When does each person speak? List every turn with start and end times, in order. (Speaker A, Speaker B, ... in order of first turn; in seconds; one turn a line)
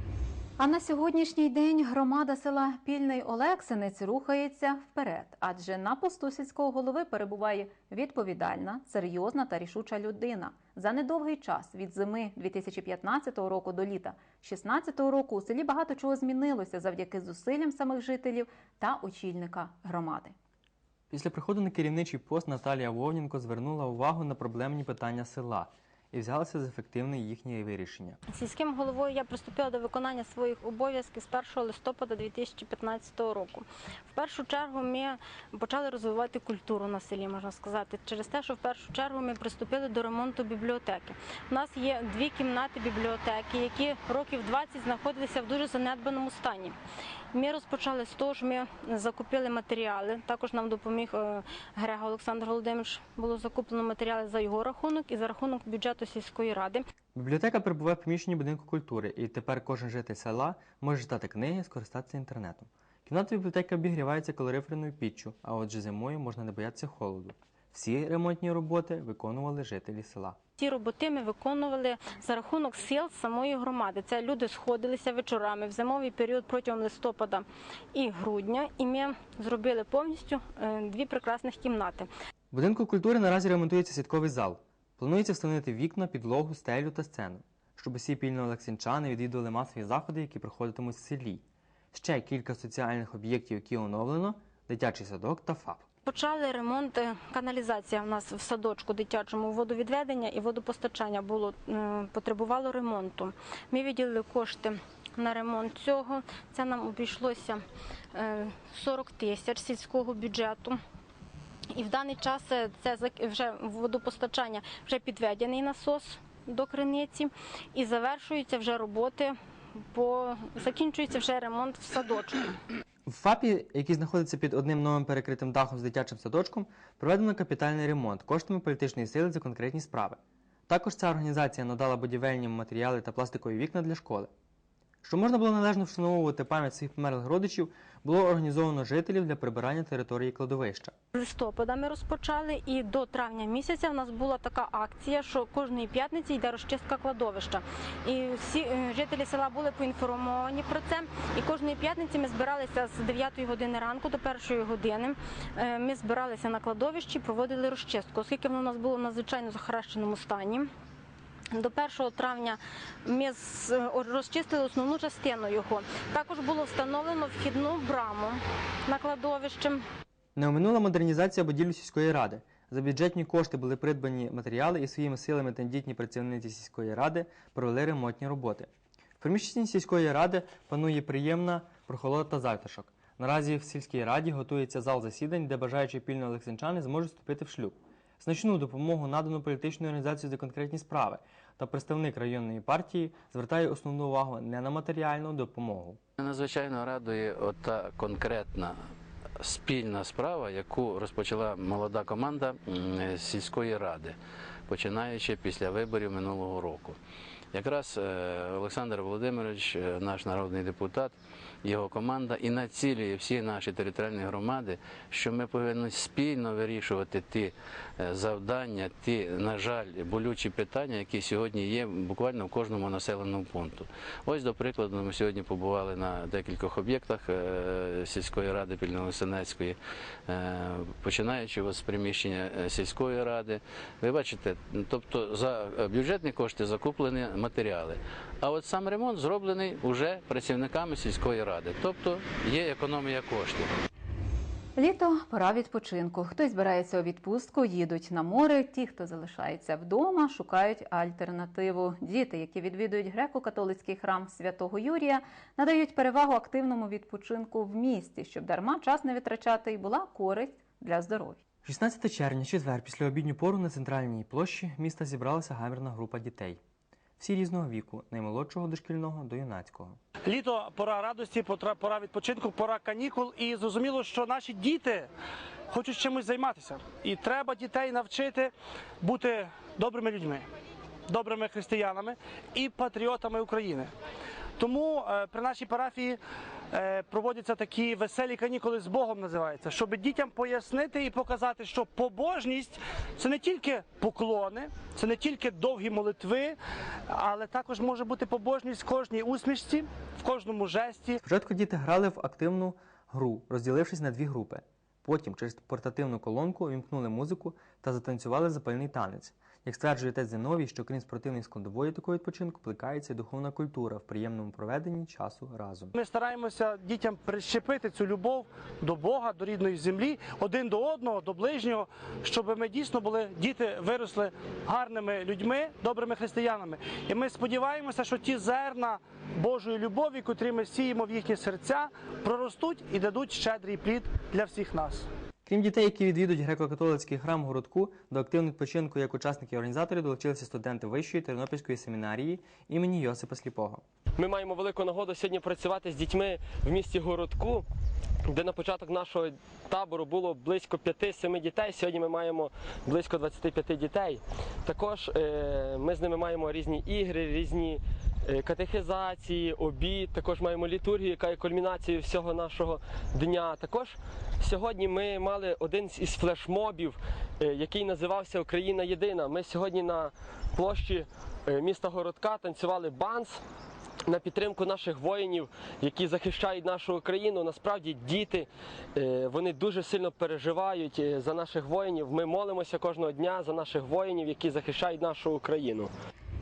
Speaker A: 0.6-20.3
Speaker B: 21.1-28.2
Speaker C: 28.3-46.8
Speaker C: 47.3-56.9
Speaker B: 57.1-70.4
Speaker C: 70.6-82.1
Speaker B: 82.5-95.9
Speaker C: 96.0-107.6
Speaker C: 108.1-110.8
Speaker C: 111.7-122.5
Speaker B: 123.1-134.3
Speaker B: 135.0-140.9
Speaker C: 141.1-160.7
Speaker C: 161.5-169.8
Speaker B: 170.3-196.0
Speaker D: 196.2-204.2
Speaker D: 204.7-207.0
Speaker D: 207.5-243.8
Speaker A: 244.8-261.4
Speaker B: 261.6-266.6
Speaker B: 267.2-270.0
Speaker E: 270.2-275.1
Speaker E: 275.7-280.4
Speaker E: 281.1-283.9
Speaker E: 284.6-286.2
Speaker E: 286.7-296.6
Speaker E: 297.1-301.2
Speaker B: 301.2-315.9
Speaker E: 315.9-335.1
Speaker B: 335.4-343.8
Speaker F: 344.2-347.6
Speaker F: 348.3-373.4
Speaker F: 374.1-385.9